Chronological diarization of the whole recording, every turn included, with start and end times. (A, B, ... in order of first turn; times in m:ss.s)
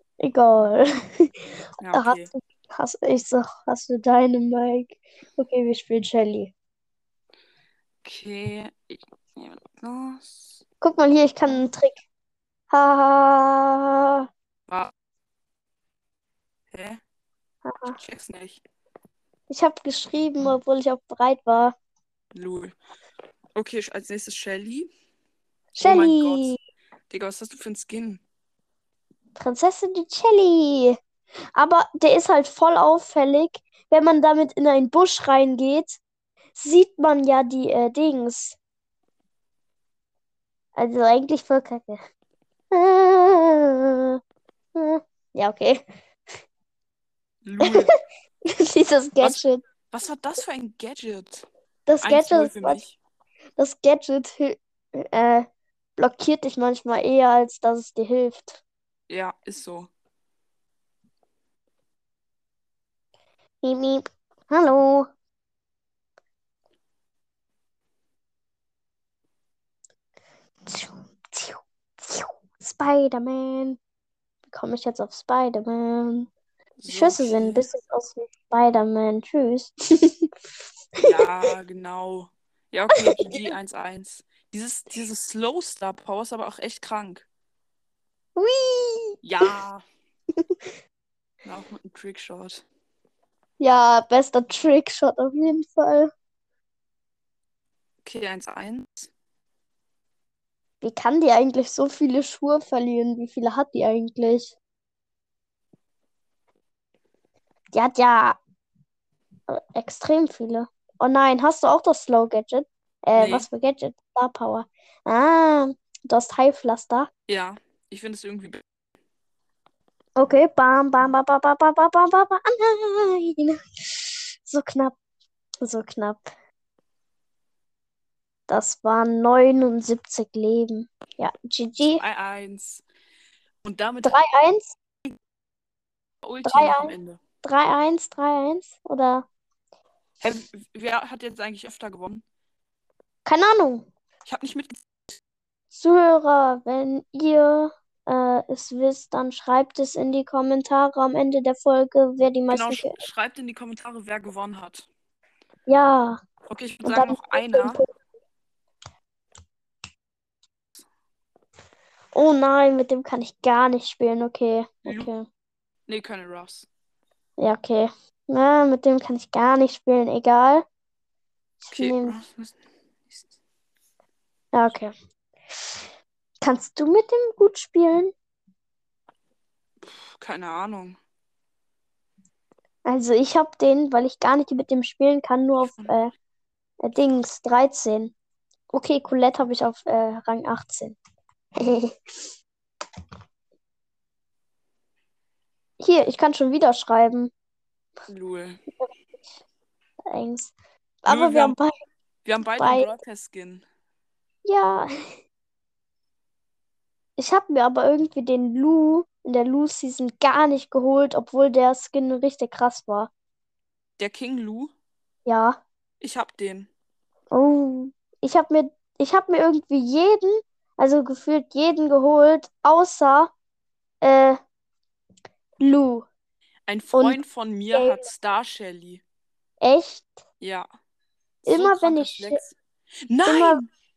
0:00.2-0:06.5 A
0:01.8-0:02.3 B
0:08.0-0:10.6 B
0:10.8-0:12.0 A
0:12.7-0:14.2 A
0:16.7-0:17.0 B
0:17.6-0:18.0 A
0:17.9-0:18.6 B
0:19.5-0:21.7 A
0:22.3-0:22.8 B
0:23.6-0:24.9 B
0:25.7-0:26.6 A
0:25.8-0:26.6 B
0:27.1-0:28.2 B
0:29.4-0:31.0 A
0:31.5-0:36.0 A
0:36.6-0:38.6 A
0:40.8-0:42.0 A
0:42.7-0:44.1 A
0:44.8-0:45.8 A
0:47.4-0:47.9 B
0:47.6-0:47.9 A
0:48.5-0:49.6 A
0:49.2-0:51.4 B
0:51.8-0:52.8 A
0:52.0-0:53.0 B
0:53.6-0:58.6 A
0:59.1-0:59.9 B
1:03.6-1:05.1 A
1:10.7-1:13.8 A
1:14.5-1:16.3 A
1:16.8-1:17.7 B
1:16.9-1:20.2 A
1:21.0-1:27.2 B
1:22.9-1:23.4 A
1:28.4-1:29.2 A
1:29.2-1:29.8 B
1:31.4-1:32.6 B
1:33.6-1:36.1 A
1:38.0-1:39.1 B
1:40.8-1:44.6 A
1:47.7-1:48.4 A
1:49.5-1:57.1 A
1:53.1-1:53.5 B
1:57.3-1:58.6 B
2:00.2-2:05.0 A
2:05.6-2:06.3 A
2:08.5-2:12.0 A
2:12.0-2:12.8 B
2:13.6-2:14.2 B
2:14.0-2:14.8 A
2:16.2-2:17.2 B
2:16.4-2:19.3 A
2:20.2-2:22.2 B
2:23.2-2:23.9 A
2:24.2-2:25.2 B
2:25.7-2:33.0 A
2:32.5-2:34.9 B
2:35.7-2:36.2 A
2:36.5-2:37.8 B
2:36.8-2:37.9 A
2:42.1-2:45.3 A
2:45.9-2:46.7 B
2:47.4-2:50.6 A
2:51.6-2:52.2 A
2:51.7-2:52.5 B
2:54.5-2:54.9 A
2:55.6-2:55.8 A
2:56.4-2:58.1 A
2:59.8-3:01.0 B
3:02.8-3:06.1 A
3:05.6-3:06.0 B
3:06.8-3:08.1 A
3:08.7-3:11.0 A
3:11.6-3:12.3 A
3:15.8-3:17.3 A
3:18.1-3:18.6 B
3:20.1-3:21.7 A
3:21.1-3:21.6 B
3:22.2-3:23.6 B
3:22.6-3:22.9 A
3:24.4-3:24.9 A
3:27.2-3:33.1 A
3:34.0-3:34.7 B
3:35.2-3:35.6 A
3:36.0-3:36.7 B
3:37.3-3:43.3 A
3:44.0-3:44.4 A
3:45.6-3:46.1 A
3:46.7-3:49.0 B
3:46.9-3:48.1 A
3:49.6-3:50.1 A
3:50.4-3:50.7 B
3:51.4-3:52.6 B
3:51.4-3:52.4 A
3:53.1-3:53.7 B
3:53.2-3:53.6 A